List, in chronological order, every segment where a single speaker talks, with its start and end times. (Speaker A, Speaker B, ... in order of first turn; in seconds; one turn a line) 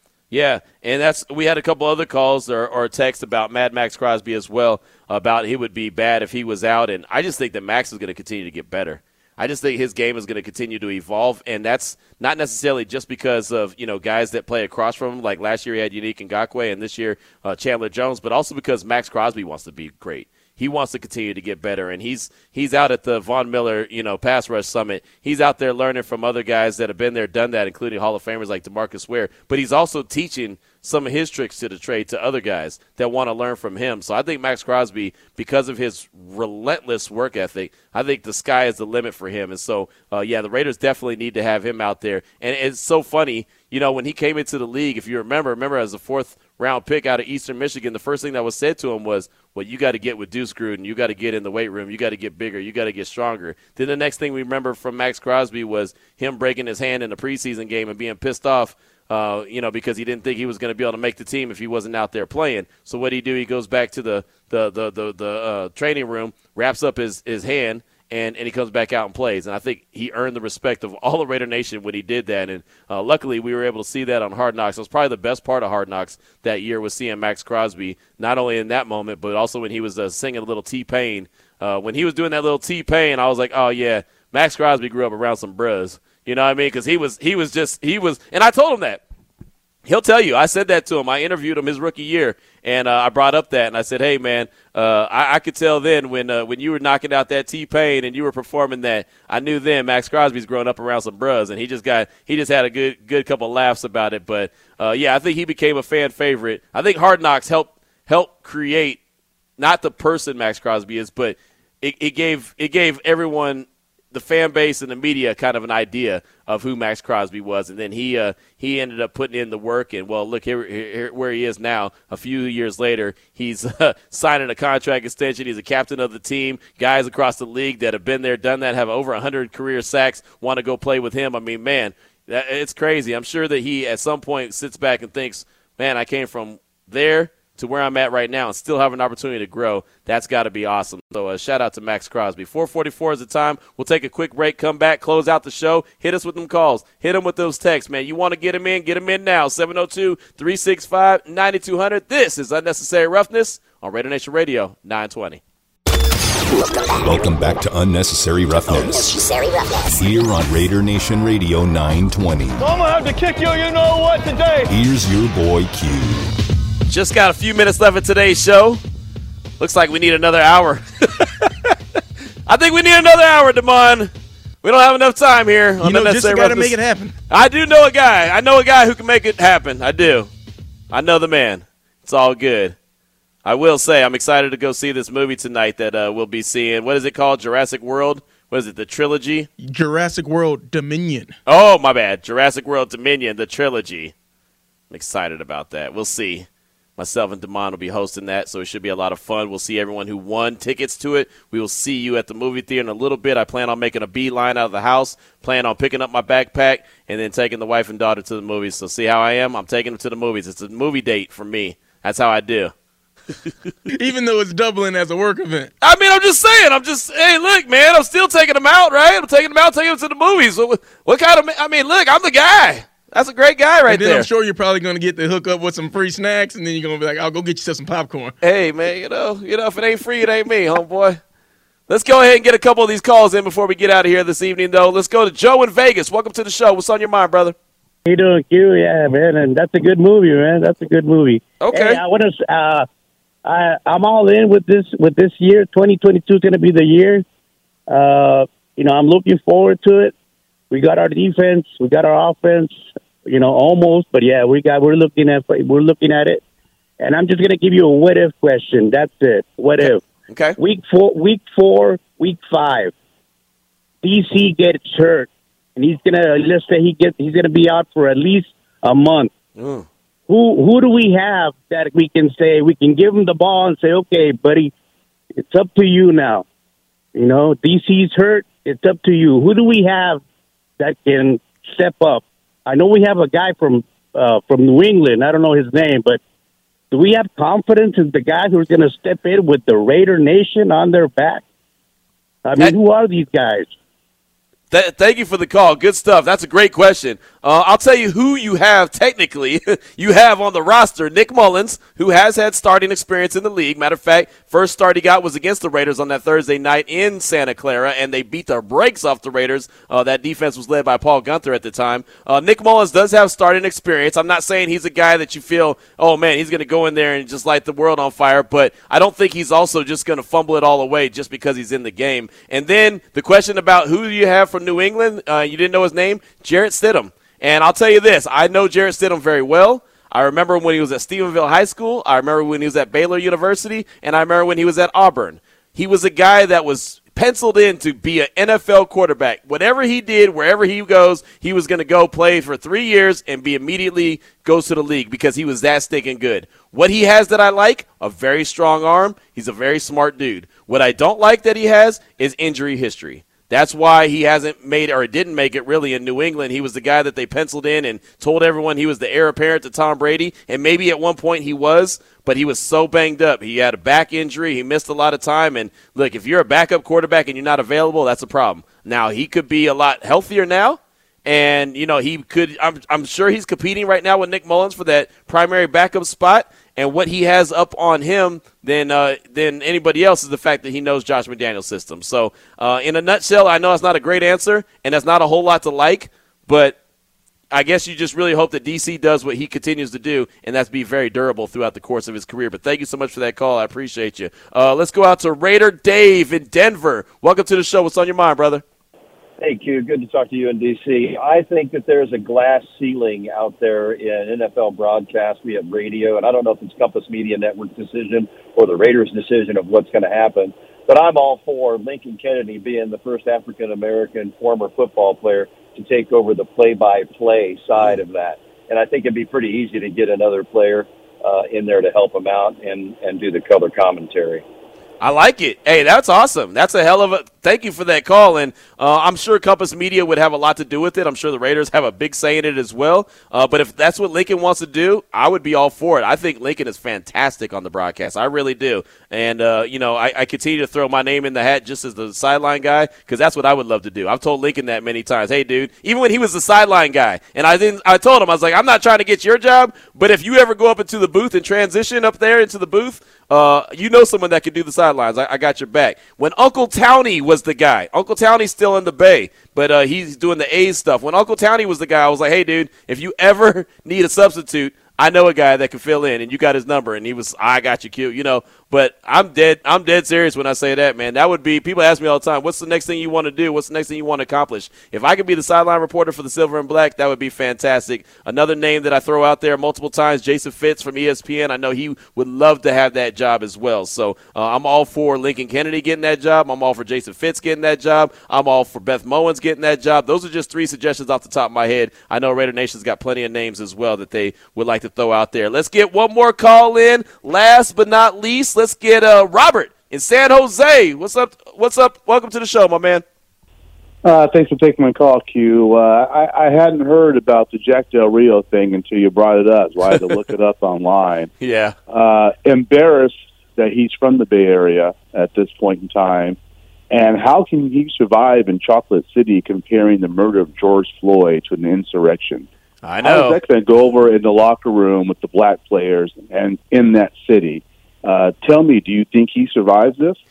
Speaker A: 0.3-89.0
Speaker A: 89.8-109.0
Speaker A: 109.6-155.4
Speaker B: 156.8-162.6
Speaker C: 162.6-164.7
Speaker B: 164.7-166.3
Speaker A: 166.9-168.8
Speaker A: 169.6-171.7
Speaker A: 172.5-174.1
Speaker A: 174.6-176.8
Speaker D: 175.8-177.2
Speaker A: 177.3-180.3
Speaker A: 180.9-182.8
Speaker A: 183.4-189.5
Speaker D: 189.6-191.4
Speaker A: 191.5-194.1
Speaker A: 194.9-212.7
Speaker D: 213.9-215.7
Speaker A: 215.8-224.3
Speaker D: 223.9-228.3
Speaker A: 228.4-231.2
Speaker A: 231.9-237.6
Speaker E: 238.1-242.9
Speaker A: 241.6-242.0
Speaker E: 243.4-247.2
Speaker E: 247.9-250.1
Speaker E: 250.7-256.4
Speaker E: 257.0-260.0
Speaker A: 260.3-260.6
Speaker E: 260.6-262.9
Speaker E: 264.0-269.3
Speaker A: 269.6-269.9
Speaker E: 270.3-274.7
Speaker E: 275.4-276.5
Speaker E: 277.1-280.2
Speaker E: 280.8-286.2
Speaker E: 286.9-291.4
Speaker E: 292.4-293.7
Speaker A: 294.7-386.8
Speaker A: 387.5-398.6
Speaker F: 399.4-424.4
Speaker A: 425.0-503.0
Speaker G: 504.0-511.3
Speaker A: 511.4-511.8
Speaker G: 511.9-516.4
Speaker G: 516.9-522.5
Speaker A: 522.8-523.4
Speaker G: 523.0-530.2